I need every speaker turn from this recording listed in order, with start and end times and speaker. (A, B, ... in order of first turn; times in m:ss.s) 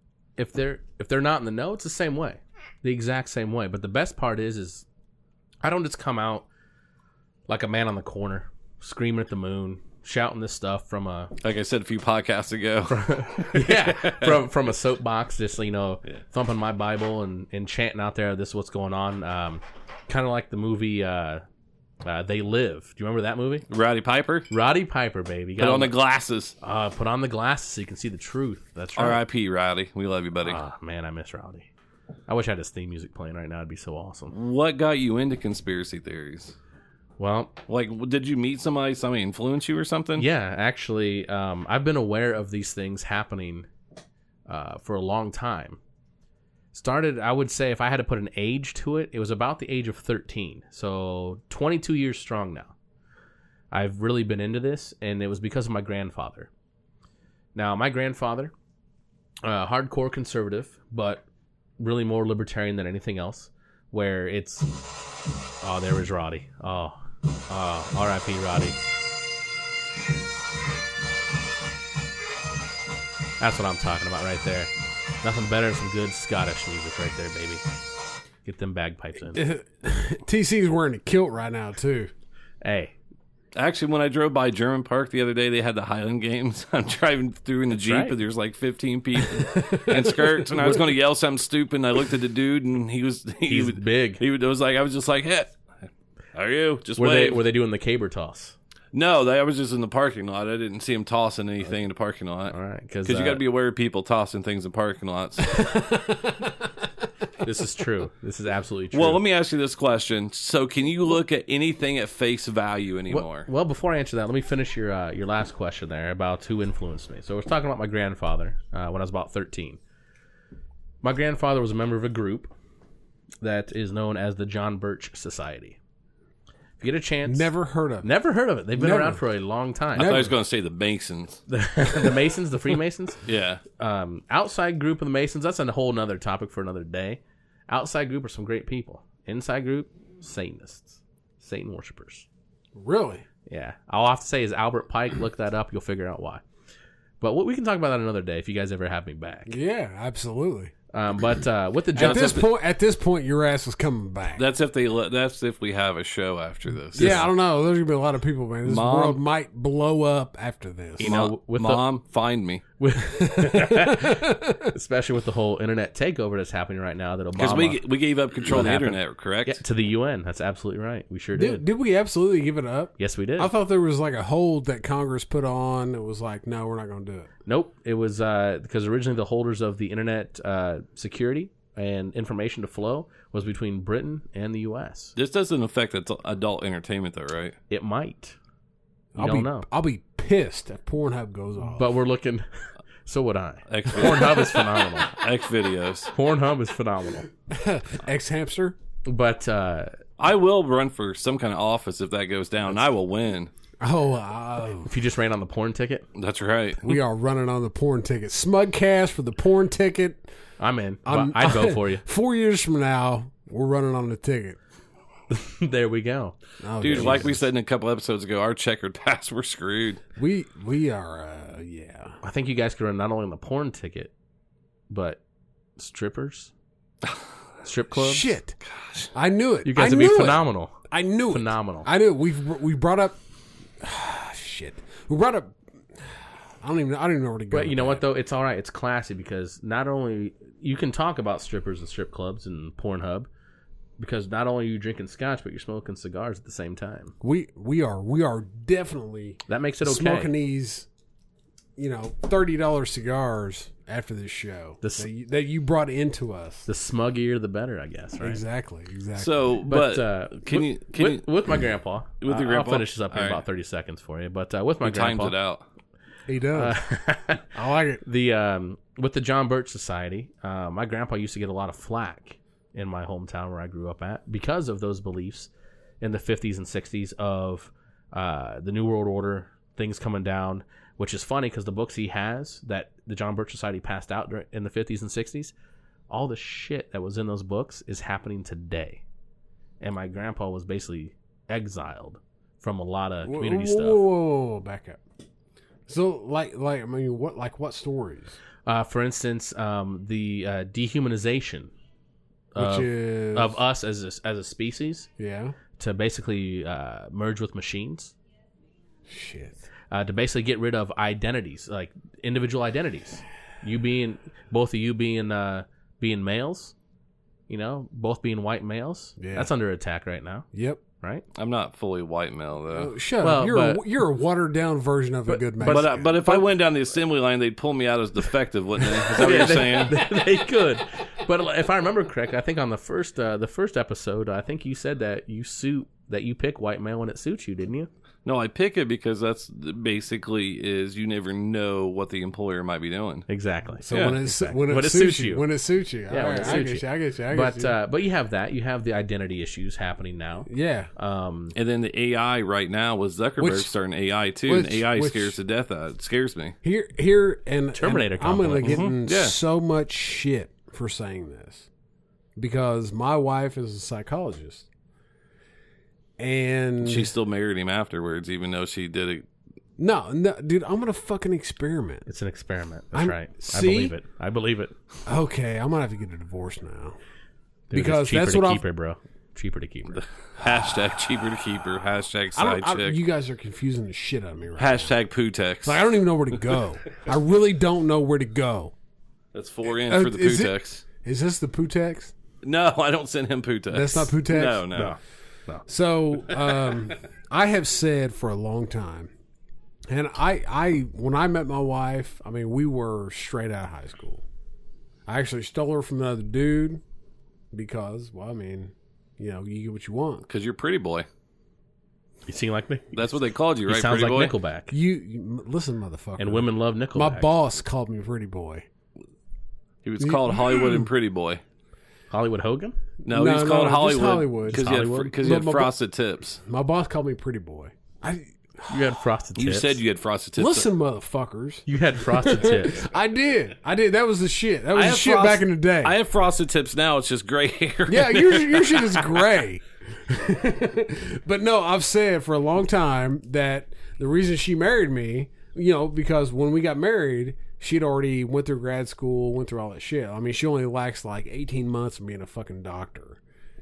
0:00.4-0:04.9 A
0:05.6-0:06.5 A
0:07.5-0:11.3 A
0:11.4-0:14.4 B
0:12.9-0:21.4 A
0:22.0-0:23.7 A
0:23.7-0:24.5 B
0:24.5-0:26.0 A
0:25.6-0:26.6 B
0:26.6-0:29.2 A
0:29.0-0:30.6 B
0:30.4-0:31.7 A
0:32.3-0:34.3 A
0:34.3-0:36.6 B
0:37.2-0:37.6 A
0:37.7-0:40.3 B
0:40.2-0:43.7 A
0:44.5-0:45.8 A
0:46.7-0:52.8 A
0:53.7-0:56.5 A
0:57.6-0:58.5 A
0:59.4-1:01.2 A
1:01.8-1:04.7 A
1:05.6-1:08.8 A
1:13.4-1:14.7 A
1:15.2-1:17.6 A
1:18.4-1:19.4 A
1:19.3-1:22.1 C
1:22.6-1:23.0 A
1:23.6-1:35.5 B
1:27.7-1:28.2 A
1:29.3-1:30.8 C
1:33.5-1:34.2 A
1:36.4-1:37.4 B
1:37.0-1:38.6 A
1:38.9-1:45.8 B
1:42.5-1:43.4 A
1:45.6-1:46.4 C
1:47.4-1:49.2 A
1:48.9-1:53.5 B
1:53.1-1:59.8 A
2:01.0-2:02.5 A
2:03.4-2:05.8 A
2:06.8-2:07.5 A
2:07.3-2:08.1 C
2:08.0-2:10.3 A
2:08.8-2:09.2 C
2:10.0-2:10.3 C
2:10.0-2:11.4 B
2:11.5-2:13.2 A
2:13.2-2:13.6 B
2:13.8-2:22.3 A
2:22.8-2:23.2 C
2:23.5-2:26.4 A
2:27.2-2:29.6 A
2:29.5-2:30.7 C
2:30.9-2:32.4 A
2:32.0-2:34.4 C
2:32.0-2:32.4 B
2:34.4-2:37.3 B
2:37.0-2:41.1 C
2:37.0-2:37.3 A
2:38.6-2:39.2 B
2:41.0-2:41.8 A
2:41.0-2:42.6 B
2:42.8-2:47.8 A
2:43.0-2:44.7 C
2:47.4-2:49.6 B
2:48.4-2:51.6 A
2:51.4-2:57.3 C
2:53.0-2:53.5 A
2:57.5-3:05.2 A
3:05.2-3:07.6 B
3:07.7-3:08.4 A
3:09.2-3:11.9 C
3:09.2-3:09.7 A
3:11.7-3:12.5 A
3:13.1-3:15.2 A
3:13.7-3:16.1 B
3:16.1-3:17.3 A
3:17.5-3:18.8 C
3:19.0-3:20.0 A
3:20.2-3:23.5 B
3:23.8-3:24.9 C
3:24.9-3:26.1 A
3:26.2-3:27.0 B
3:26.8-3:30.2 C
3:30.6-3:32.0 A
3:31.0-3:34.6 C
3:35.3-3:36.4 A
3:36.6-3:37.4 C
3:36.8-3:40.0 B
3:36.9-3:37.2 A
3:40.2-3:42.2 C
3:42.2-3:44.1 A
3:44.9-3:45.2 A
3:45.8-3:46.5 A
3:47.6-3:48.3 A
3:48.0-3:48.6 C
3:48.8-3:49.1 B
3:49.1-3:53.2 C
3:49.6-3:50.8 A
3:51.3-3:51.9 A
3:53.8-3:55.6 C
3:56.6-3:58.0 C
3:57.5-4:03.3 A
4:04.0-4:07.2 A
4:07.2-4:10.9 C
4:09.5-4:10.3 A
4:11.8-4:16.7 C
4:14.8-4:15.1 A
4:16.7-4:18.4 A
4:18.2-4:19.4 C
4:19.2-4:21.3 B
4:19.7-4:25.4 A
4:22.2-4:23.4 B
4:24.8-4:25.6 B
4:26.3-4:26.8 C
4:26.6-4:27.5 A
4:27.5-4:28.0 C
4:28.0-4:35.5 A
4:36.0-4:45.5 A
4:46.1-4:49.0 A
4:49.8-4:54.1 A
4:53.2-4:55.0 C
4:55.9-4:58.4 C
4:58.7-5:01.7 A
5:02.5-5:05.1 A
5:02.6-5:03.6 C
5:05.2-5:05.6 C
5:05.8-5:08.1 A
5:09.1-5:09.7 C
5:09.9-5:16.8 A
5:17.5-5:20.5 A
5:19.2-5:19.5 C
5:20.5-5:20.8 C
5:21.3-5:22.9 B
5:22.7-5:26.4 C
5:23.2-5:23.8 A
5:25.3-5:26.4 A
5:25.6-5:30.0 B
5:29.0-5:37.9 A
5:38.2-5:43.3 B
5:43.3-5:45.4 A
5:43.8-5:47.7 C
5:43.9-5:44.2 B
5:46.1-5:51.6 A
5:50.5-5:50.9 C
5:51.6-5:56.6 B
5:53.4-5:53.7 C
5:54.5-5:55.4 C
5:56.6-6:01.7 C
5:57.7-5:58.9 A
5:58.6-5:59.4 B
6:02.4-6:04.7 C
6:06.2-6:07.1 C
6:06.8-6:09.3 B
6:09.8-6:12.1 C
6:12.1-6:14.7 A
6:12.9-6:14.0 C
6:15.1-6:17.0 C
6:17.7-6:20.0 A
6:17.7-6:18.6 C
6:20.0-6:23.0 B
6:22.4-6:25.0 C
6:24.6-6:25.8 B
6:25.6-6:28.7 C
6:29.3-6:30.8 B
6:29.7-6:32.1 C
6:32.4-6:35.0 B
6:33.7-6:34.7 C
6:34.7-6:35.6 A
6:35.7-6:39.1 C
6:39.9-6:44.2 C
6:45.1-6:46.8 C
6:47.5-6:50.3 C
6:50.3-6:51.1 B
6:52.3-6:53.0 A
6:52.9-6:54.3 B
6:53.7-6:54.7 A
6:54.7-6:58.7 C
6:56.2-6:57.3 A
6:59.8-7:01.4 B
7:00.0-7:00.9 C
7:02.1-7:02.8 A
7:03.0-7:05.7 C
7:03.0-7:06.4 B
7:04.6-7:05.0 A
7:06.4-7:08.9 C
7:08.7-7:09.8 A
7:09.4-7:10.7 B
7:10.4-7:16.0 C
7:11.7-7:12.9 A
7:14.7-7:19.3 B
7:17.9-7:33.2 C